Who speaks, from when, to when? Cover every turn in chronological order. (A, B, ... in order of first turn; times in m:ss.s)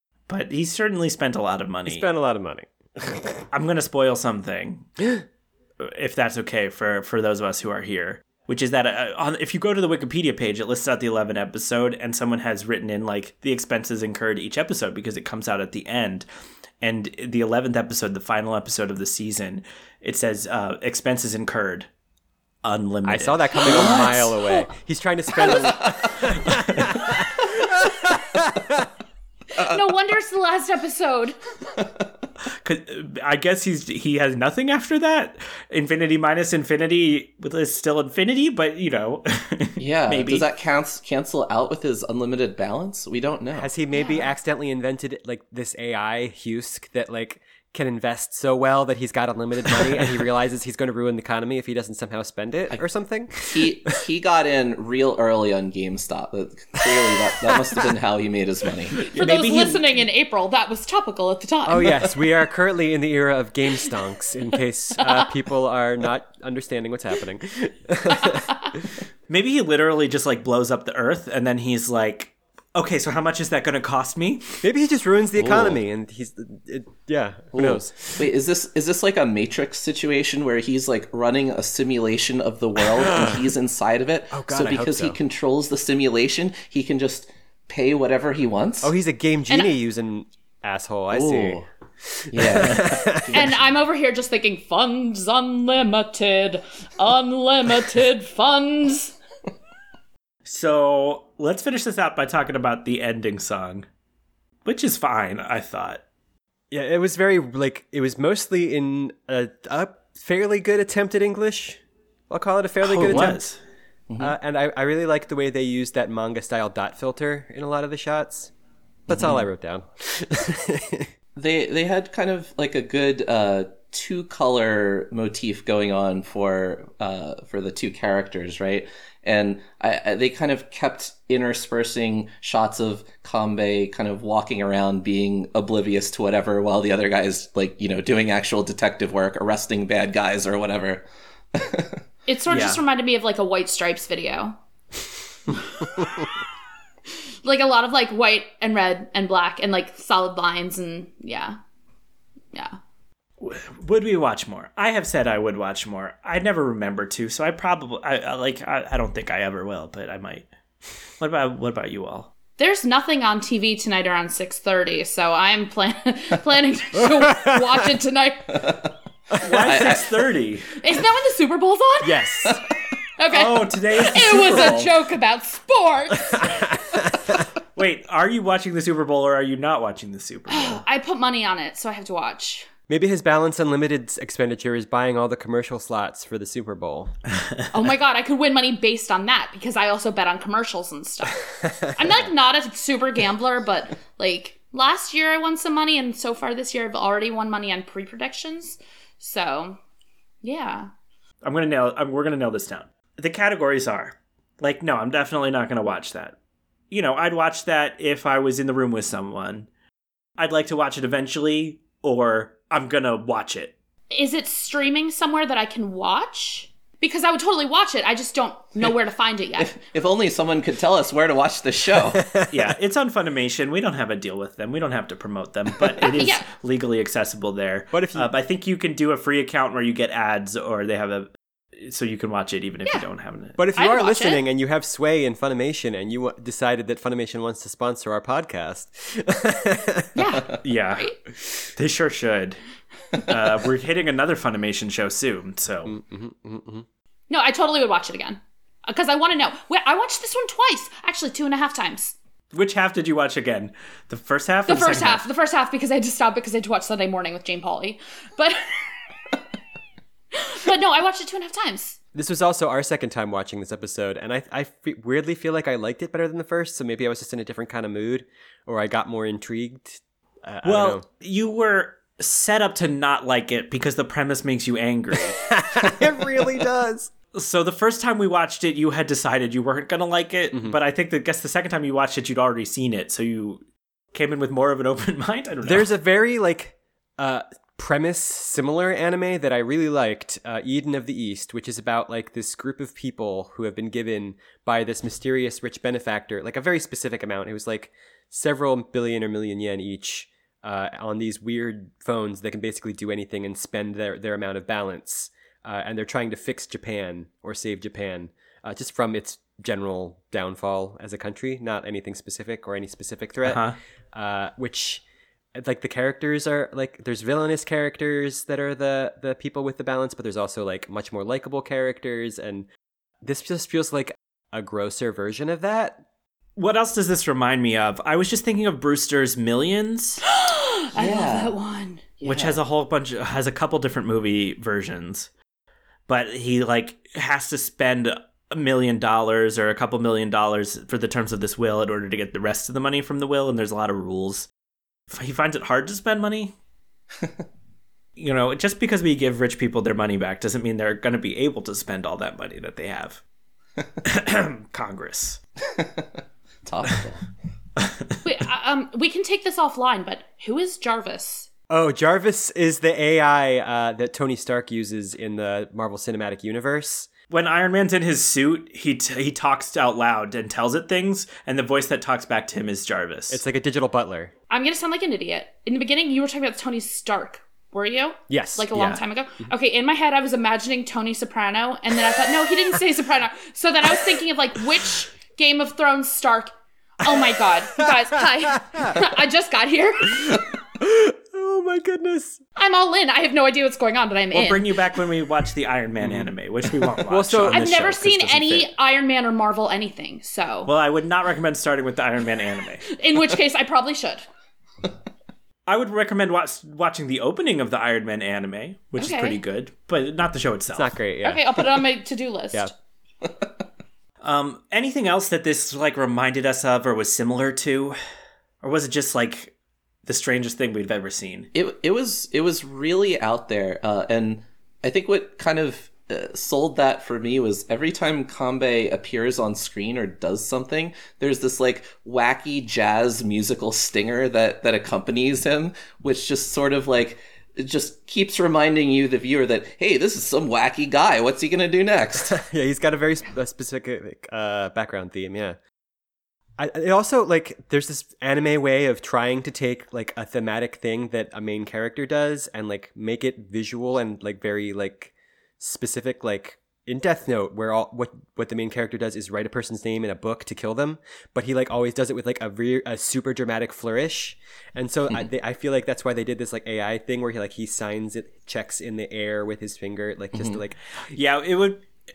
0:00.3-0:02.0 A
0:01.8-0:03.4 B
0:03.5-0:04.9 A
0:05.8-0:16.2 A
0:16.8-0:21.9 A
0:22.6-0:23.5 A
0:23.0-0:28.8 B
0:23.6-0:24.7 C
0:23.6-0:24.3 D
0:25.3-0:26.1 D
0:29.6-0:31.4 C
0:31.8-0:32.0 D
0:32.6-0:40.5 A
0:39.8-0:43.7 D
0:43.6-0:53.7 B
0:43.9-0:44.3 C
0:53.4-0:59.0 D
0:59.1-1:02.1 C
0:59.1-0:59.8 A
1:01.6-1:08.9 B
1:05.0-1:05.3 C
1:08.1-1:08.7 C
1:09.3-1:14.6 A
1:14.6-1:18.2 B
1:15.4-1:15.8 D
1:17.5-1:28.9 D
1:23.0-1:23.4 B
1:24.3-1:25.2 B
1:28.8-1:33.5 B
1:31.1-1:31.6 D
1:32.3-1:33.7 D
1:33.3-1:39.1 C
1:40.4-1:43.8 A
1:44.6-1:46.0 A
1:46.7-1:53.4 B
1:52.8-1:53.6 A
1:54.1-1:54.3 D
1:54.2-1:58.5 B
1:59.1-2:01.1 B
1:59.1-1:59.4 D
2:01.4-2:22.0 D
2:22.3-2:24.6 C
2:22.5-2:22.8 A
2:25.8-2:26.0 C
2:27.4-2:31.6 C
2:33.4-2:40.4 A
2:41.2-2:42.3 A
2:42.6-2:48.7 C
2:47.0-2:47.9 B
2:48.5-2:48.9 D
2:49.4-2:50.8 A
2:49.6-2:50.0 D
2:50.8-2:52.5 C
2:52.0-2:52.6 B
2:53.2-2:56.5 C
2:53.3-2:54.9 A
2:56.3-2:57.5 B
2:57.7-3:00.8 A
3:00.5-3:02.7 C
3:02.9-3:07.1 B
3:07.4-3:07.7 A
3:07.7-3:19.8 C
3:20.4-3:20.9 C
3:21.4-3:26.4 A
3:26.9-3:29.7 A
3:30.4-3:33.7 A
3:34.1-3:39.8 C
3:39.6-3:42.2 D
3:42.2-3:42.5 B
3:42.5-3:53.6 A
3:46.0-3:46.4 C
3:47.9-3:48.3 B
3:53.6-4:00.2 B
3:53.8-3:54.4 C
4:00.1-4:01.1 C
4:00.6-4:01.1 A
4:01.8-4:02.6 A
4:03.1-4:05.9 A
4:05.8-4:06.8 B
4:07.3-4:12.1 C
4:12.5-4:15.2 A
4:14.7-4:19.0 C
4:20.3-4:22.0 C
4:22.1-4:31.0 B
4:30.6-4:35.4 A
4:35.4-4:37.1 B
4:37.3-4:45.9 A
4:40.5-4:40.8 B
4:45.6-5:15.0 B
5:13.4-5:13.8 A
5:15.6-5:22.7 B
5:23.2-5:26.0 B
5:26.6-5:30.2 A
5:30.3-5:32.2 C
5:30.9-5:31.6 D
5:32.2-5:35.3 A
5:32.2-5:32.6 D
5:36.1-5:44.5 A
5:45.1-5:46.5 A
5:47.2-5:47.4 D
5:48.2-5:53.2 A
5:54.0-5:55.4 A
5:55.7-5:57.3 D
5:57.8-5:58.2 A
5:58.2-6:01.5 C
6:01.7-6:07.1 B
6:07.3-6:13.4 A
6:13.3-6:14.3 B
6:14.5-6:30.4 C
6:18.3-6:18.8 B
6:18.7-6:19.0 A
6:27.8-6:29.1 B
6:30.0-6:32.4 B
6:32.6-6:34.7 C
6:34.3-6:38.7 A
6:36.0-6:36.3 B
6:37.1-6:38.0 B
6:37.4-6:40.7 C
6:40.6-6:43.0 A
6:42.9-6:44.2 C
6:45.7-6:50.9 A
6:49.0-6:49.4 C
6:50.7-6:51.6 B
6:51.2-6:52.7 C
6:54.2-6:58.0 A
6:58.6-6:59.5 A
7:00.0-7:01.5 A
7:01.5-7:22.3 D
7:22.2-7:25.6 B
7:26.6-7:50.8 B
7:50.3-7:50.6 D
7:51.1-7:51.8 A